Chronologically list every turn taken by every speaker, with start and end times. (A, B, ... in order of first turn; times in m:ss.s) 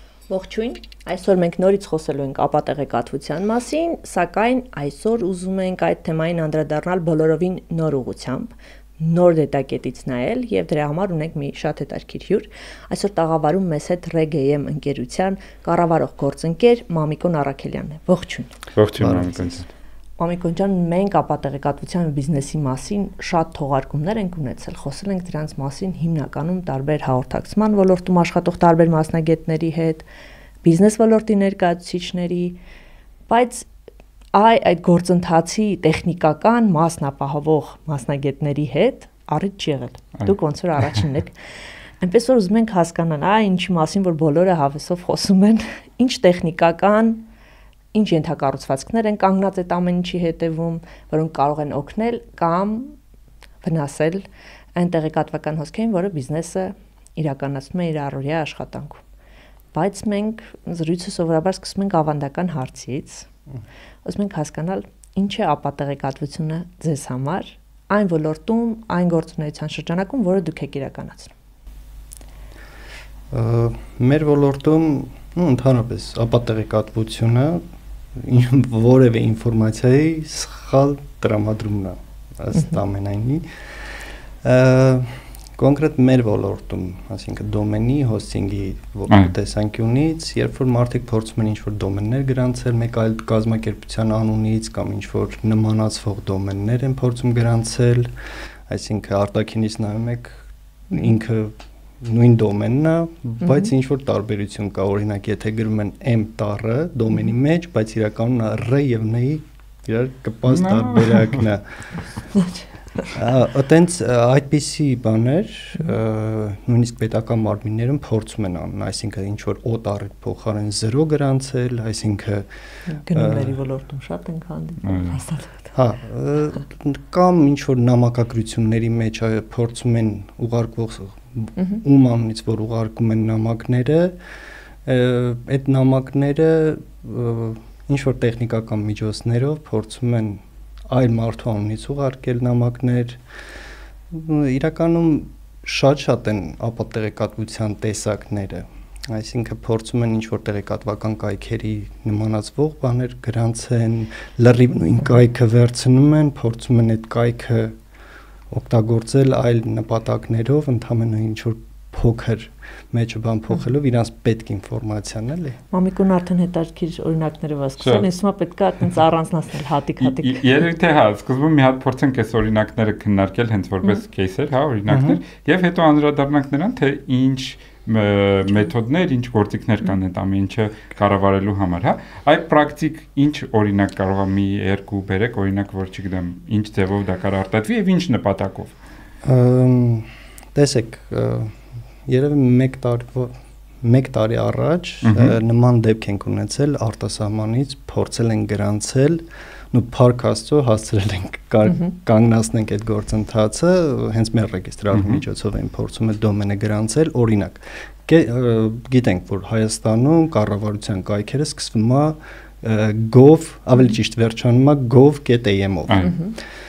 0:00.3-0:18.6 A
0:18.8-0:19.6 B
0:19.0-0:19.6 C
0:20.2-0:30.0 A
0:30.6-0:32.6 A
0:33.3-0:33.7 A
0:34.3-0:41.4 A
0:42.0-0:47.2 A
0:47.9-0:53.0 A
0:53.6-0:59.0 A
0:59.7-1:03.3 A
1:04.0-1:11.3 A
1:13.3-1:17.6 C
1:18.1-1:38.1 C
1:38.7-1:51.8 C
1:43.4-1:43.7 A
1:50.5-1:51.4 B
1:52.4-1:53.1 A
1:53.1-2:02.5 C
2:02.9-2:05.7 A
2:03.1-2:03.6 C
2:04.8-2:05.2 B
2:05.7-2:14.2 C
2:14.8-2:23.2 C
2:24.1-2:37.8 C
2:38.5-2:45.6 C
2:45.7-2:50.5 A
2:47.8-2:48.1 B
2:50.0-3:08.7 B
2:54.9-2:55.2 C
3:09.2-3:36.3 C
3:15.0-3:15.4 B
3:24.9-3:25.2 B
3:35.9-3:36.2 B
3:36.0-3:36.3 A